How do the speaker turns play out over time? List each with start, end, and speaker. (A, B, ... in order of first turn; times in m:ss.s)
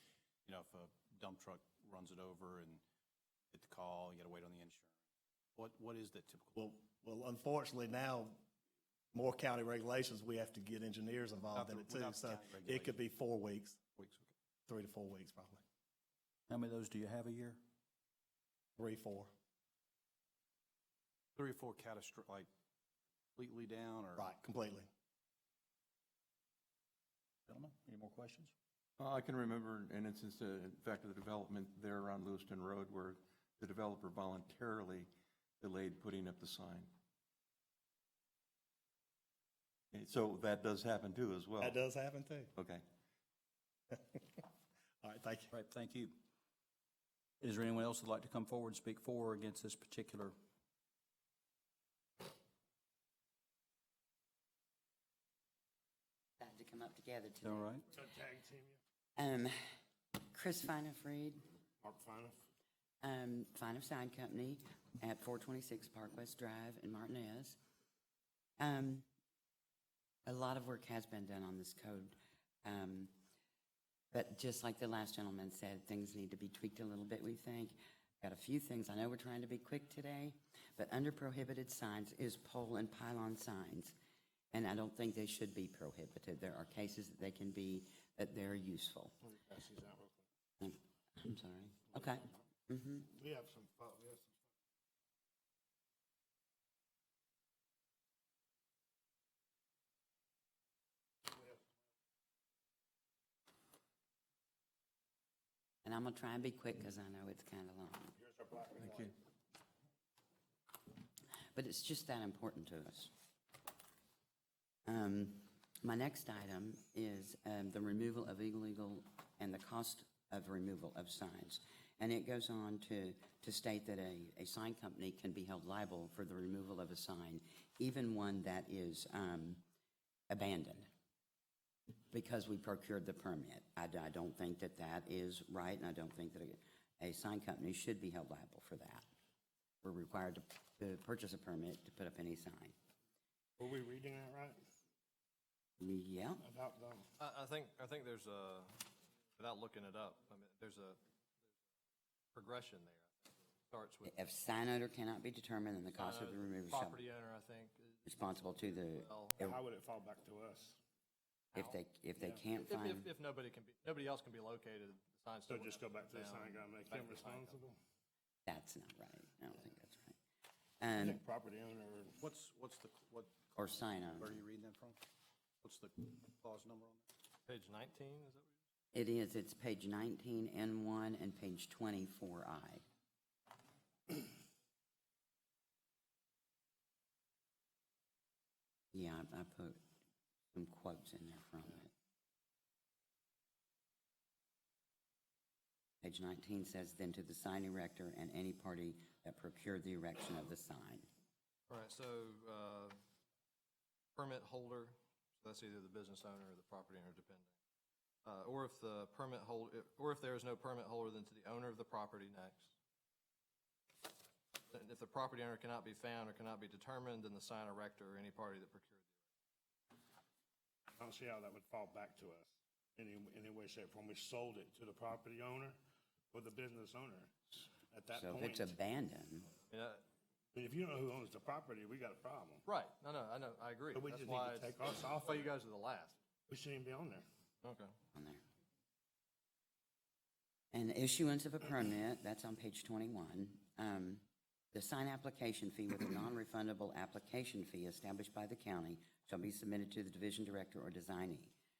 0:00.4-0:02.8 A
0:03.5-0:04.9 A
0:05.6-0:06.6 A
0:06.6-0:08.4 B
0:09.1-0:13.8 B
0:11.5-0:13.0 A
0:14.0-0:14.3 A
0:14.7-0:15.6 B
0:16.5-0:17.6 C
0:18.8-0:19.3 B
0:21.4-0:22.5 A
0:23.4-0:24.3 A
0:24.2-0:24.9 B
0:27.5-0:28.5 C
0:29.0-0:35.1 D
0:35.6-0:36.9 D
0:39.9-0:41.8 D
0:41.6-0:42.5 B
0:42.6-0:42.8 D
0:43.9-0:44.4 B
0:45.0-0:45.5 B
0:45.6-0:46.1 C
0:47.4-0:50.3 C
0:56.4-0:57.7 E
0:57.4-0:57.8 C
0:57.9-0:58.8 F
0:59.2-0:59.6 E
1:00.3-1:01.4 E
1:01.8-1:02.4 F
1:03.0-1:07.6 E
1:08.6-1:09.0 E
1:10.3-1:13.1 E
1:14.1-1:23.9 E
1:24.5-1:29.2 E
1:29.2-1:30.2 F
1:30.6-1:33.1 E
1:33.1-1:34.5 F
1:41.3-1:41.6 F
1:45.8-1:48.2 E
1:48.2-1:49.1 F
1:48.8-1:49.1 D
1:51.5-1:53.1 E
1:54.9-2:09.6 E
2:10.3-2:10.9 E
2:12.1-2:19.0 E
2:19.8-2:22.7 E
2:23.6-2:24.6 F
2:25.8-2:26.4 E
2:26.4-2:27.0 F
2:27.2-2:28.8 G
2:29.4-2:31.0 G
2:32.3-2:34.1 G
2:34.0-2:37.0 E
2:35.9-2:39.5 G
2:38.1-2:39.6 E
2:39.4-2:40.8 F
2:41.5-2:41.8 G
2:41.6-2:43.1 E
2:42.2-2:42.5 F
2:42.6-2:47.6 G
2:45.5-2:47.8 F
2:48.5-2:50.2 E
2:50.8-2:51.2 E
2:51.0-2:52.2 F
2:52.2-2:53.4 A
2:53.6-2:54.4 E
2:54.2-2:55.0 A
2:55.6-2:57.1 A
2:57.5-2:58.5 G
2:58.9-3:02.8 E
3:08.9-3:09.8 E
3:10.5-3:11.9 E
3:16.0-3:21.1 E
3:21.7-3:23.0 G
3:24.2-3:27.5 G
3:28.2-3:32.7 G
3:34.7-3:39.0 G
3:41.0-3:45.8 F
3:46.3-3:48.7 F
3:48.1-3:49.5 E
3:49.7-3:50.0 G
3:50.5-3:52.6 F
3:52.6-3:56.2 G
3:53.9-3:55.5 F
3:56.5-3:57.2 F
3:57.6-3:57.9 G
3:58.1-3:58.4 E
4:00.7-4:11.5 E